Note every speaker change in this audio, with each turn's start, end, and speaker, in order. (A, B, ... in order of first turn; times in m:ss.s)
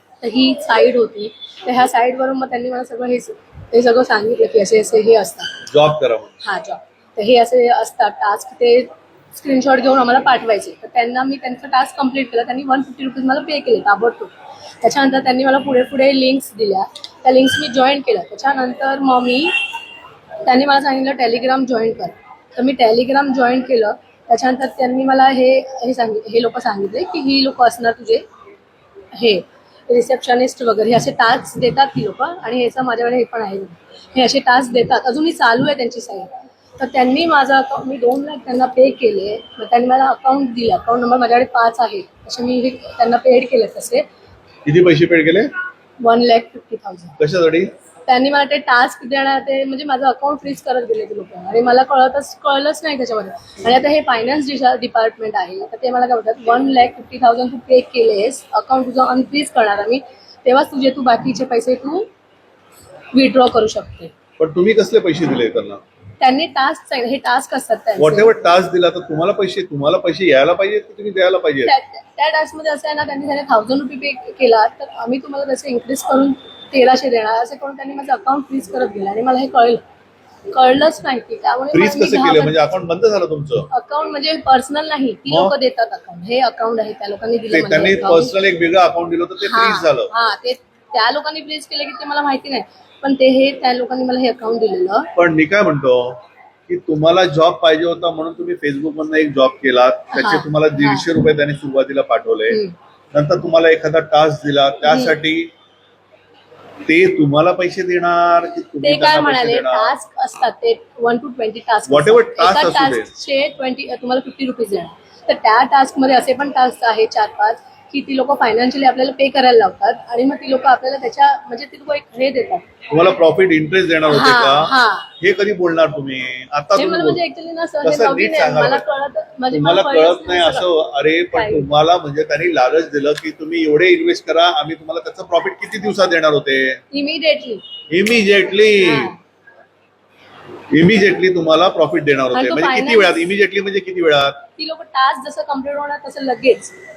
0:00.2-0:05.5 A
0:05.6-0:06.4 B
0:06.4-0:19.5 A
0:20.4-0:28.2 A
0:29.2-0:44.0 A
0:44.6-0:45.5 B
0:46.0-0:47.2 A
0:47.2-0:47.7 B
0:48.1-1:02.1 A
1:03.1-1:04.1 A
1:04.4-1:05.8 B
1:06.2-1:08.3 A
1:08.0-1:11.7 B
1:11.6-1:19.8 A
1:20.5-1:22.7 A
1:21.7-1:23.7 B
1:23.7-1:28.3 A
1:25.3-1:25.5 B
1:27.5-1:30.1 B
1:29.4-1:35.1 A
1:35.2-1:42.6 B
1:40.1-1:41.0 A
1:42.5-1:42.7 A
1:43.1-1:45.5 B
1:44.8-1:45.2 A
1:46.9-1:50.0 B
1:48.8-2:02.6 A
1:51.9-1:53.1 B
2:02.9-2:07.2 B
2:04.1-2:05.1 A
2:06.8-2:10.7 A
2:07.8-2:08.8 B
2:09.5-2:16.8 B
2:11.3-2:11.6 A
2:16.9-2:17.6 A
2:17.9-2:19.1 B
2:18.8-2:19.2 A
2:20.7-2:24.4 B
2:22.3-2:23.3 A
2:24.6-2:26.7 A